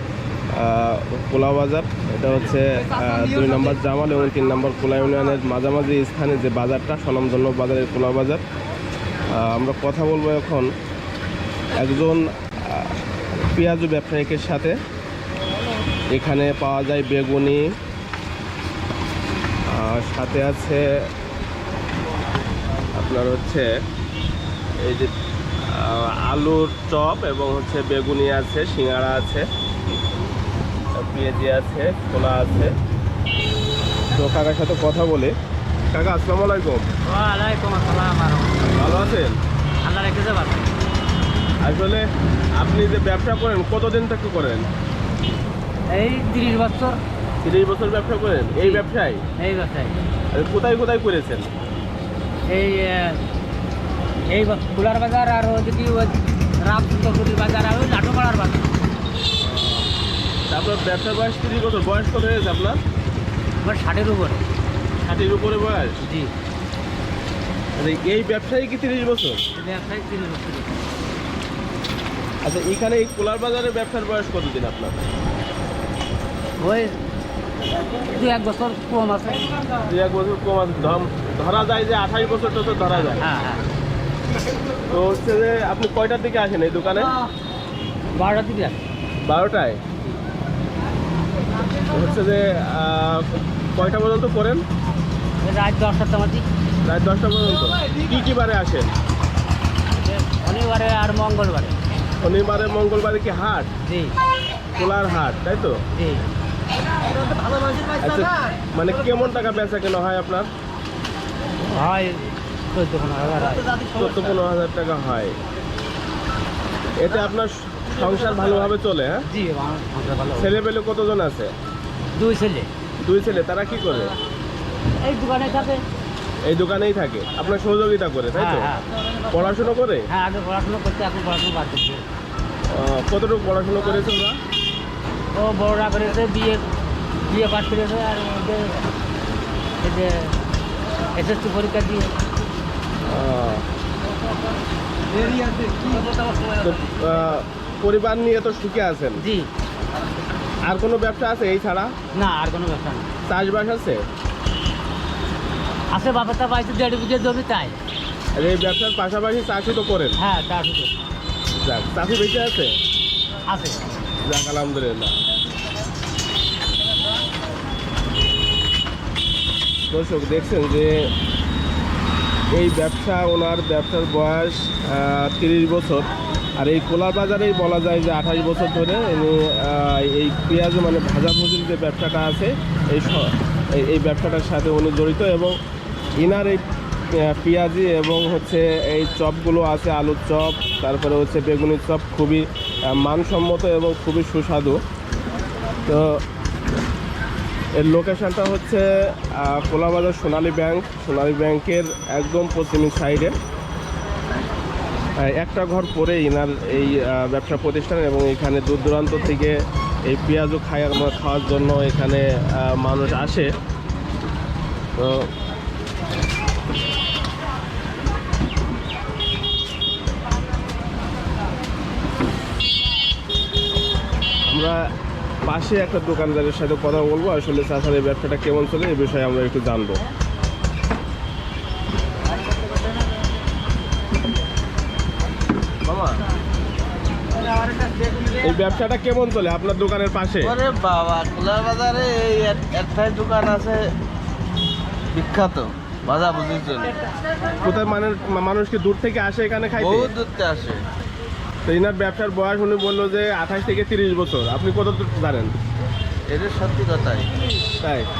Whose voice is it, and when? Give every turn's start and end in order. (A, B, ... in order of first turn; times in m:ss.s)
0:00.5-0:08.4 A
0:09.3-0:10.7 A
0:11.7-0:12.9 A
0:13.5-0:14.8 A
0:16.1-0:17.7 A
0:19.7-0:21.0 A
0:22.9-0:23.7 A
0:24.8-0:25.1 A
0:25.6-0:29.4 A
0:30.9-0:32.7 A
0:34.1-0:35.3 A
0:35.9-0:36.8 A
0:37.0-0:38.9 B
0:38.7-0:39.4 A
0:39.8-0:40.7 B
0:41.6-0:44.7 A
0:45.9-0:47.0 B
0:47.4-0:49.2 A
0:48.6-0:48.8 B
0:49.4-0:50.0 B
0:50.3-0:51.5 A
0:52.5-0:53.2 B
0:54.3-0:58.7 B
0:59.5-0:59.8 A
1:00.5-1:02.8 A
1:03.6-1:04.4 B
1:05.0-1:05.9 A
1:06.0-1:06.3 B
1:07.8-1:09.4 A
1:09.5-1:10.8 B
1:12.4-1:15.0 A
1:16.6-1:17.0 B
1:18.1-1:19.7 B
1:19.9-1:23.2 A
1:23.2-1:23.6 B
1:24.9-1:27.2 A
1:28.1-1:28.8 B
1:29.2-1:29.8 A
1:31.9-1:34.6 A
1:35.4-1:36.5 B
1:36.8-1:38.9 A
1:40.0-1:41.8 B
1:42.2-1:43.7 A
1:43.8-1:44.1 B
1:44.7-1:45.8 A
1:46.0-1:46.2 B
1:48.0-1:50.5 A
1:51.7-1:54.0 B
1:53.9-1:55.3 A
1:57.0-1:59.2 A
1:59.3-2:00.6 B
2:00.4-2:01.5 A
2:02.1-2:02.7 B
2:03.0-2:04.1 A
2:05.0-2:05.8 B
2:06.4-2:08.7 A
2:08.3-2:08.9 B
2:09.3-2:10.1 A
2:10.1-2:12.0 B
2:12.7-2:14.4 A
2:15.3-2:16.6 B
2:17.2-2:18.9 B
2:19.8-2:20.3 B
2:21.1-2:22.1 B
2:23.1-2:23.6 A
2:26.5-2:29.2 A
2:29.2-2:29.5 B
2:30.6-2:31.9 A
2:32.1-2:33.1 B
2:33.2-2:34.0 A
2:35.9-2:37.8 B
2:38.3-2:40.2 A
2:40.2-2:40.9 B
2:41.6-2:42.7 A
2:43.5-2:43.8 B
2:44.2-2:45.1 A
2:49.9-2:51.1 A
2:52.5-3:05.6 A
3:06.2-3:14.8 A
3:15.8-3:16.2 A
3:17.7-3:23.3 A
3:25.2-3:33.5 A
3:35.0-3:35.3 A
3:44.5-3:44.8 A
3:45.4-3:50.0 A
3:55.8-3:56.2 A
3:58.4-4:00.5 A
4:00.4-4:03.9 C
4:05.1-4:07.0 C
4:07.6-4:10.1 A
4:09.8-4:10.8 C
4:11.7-4:15.5 A
4:16.3-4:17.3 C
4:17.8-4:18.1 A